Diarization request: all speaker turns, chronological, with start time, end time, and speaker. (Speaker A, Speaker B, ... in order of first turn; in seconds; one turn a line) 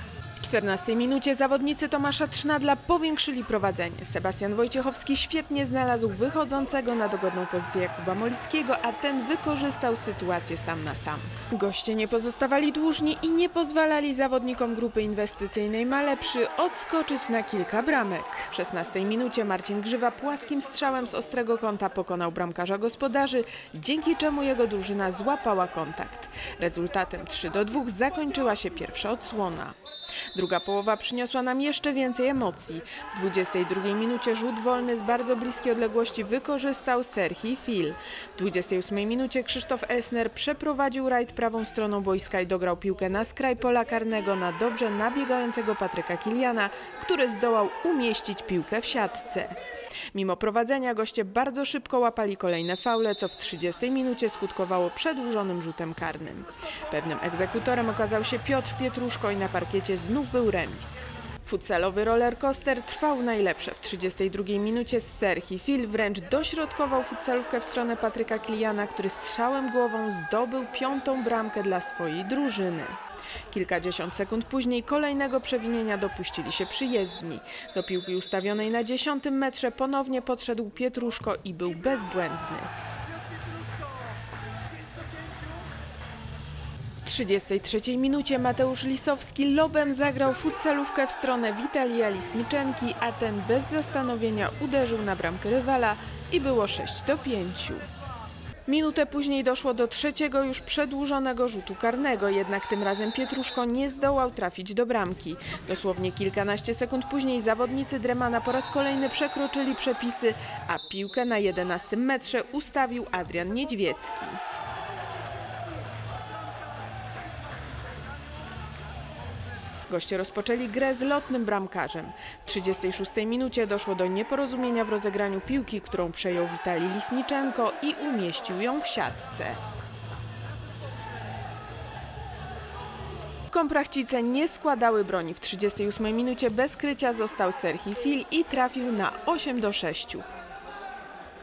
Speaker A: 0.4-29.8
Speaker A: 30.3-49.5
Speaker A: 50.1-73.0
Speaker A: 73.5-82.7
Speaker A: 87.0-97.8
Speaker A: 98.7-114.4
Speaker A: 119.9-129.6
Speaker A: 133.5-140.2